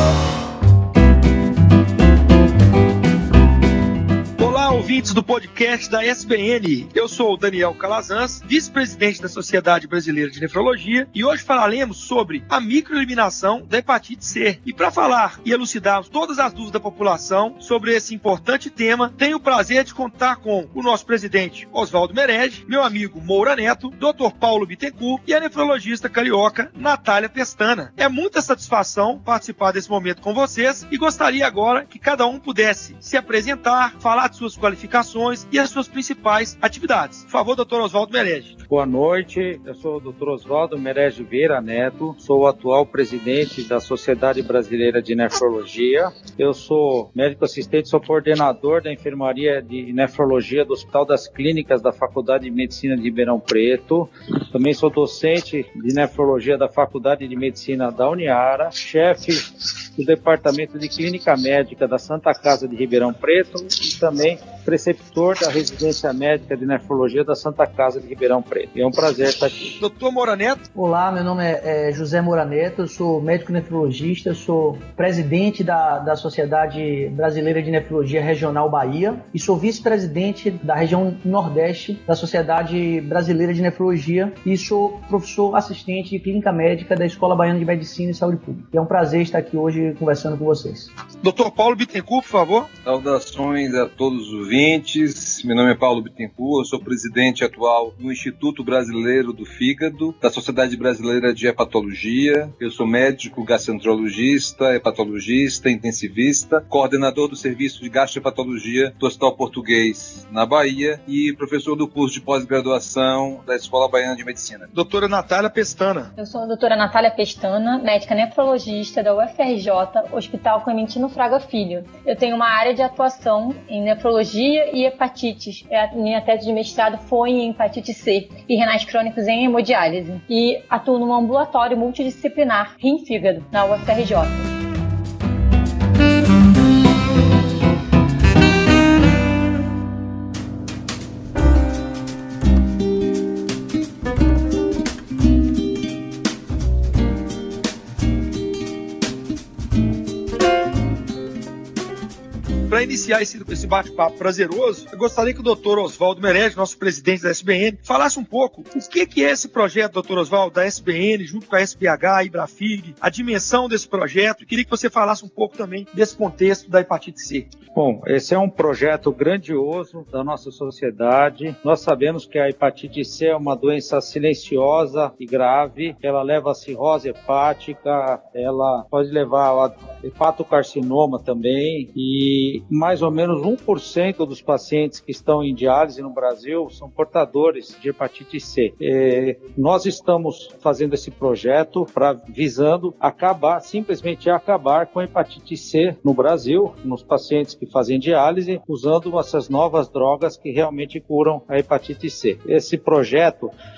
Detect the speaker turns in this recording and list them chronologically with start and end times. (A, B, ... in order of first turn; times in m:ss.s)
0:04.4-0:38.6 A
0:38.7-1:09.8 B
1:09.8-1:10.6 A
1:10.8-1:30.9 C
1:31.2-1:32.7 A
1:32.8-1:54.7 D
1:54.7-1:56.1 A
1:56.2-2:14.5 E
2:32.7-2:47.5 A
2:47.7-3:23.5 B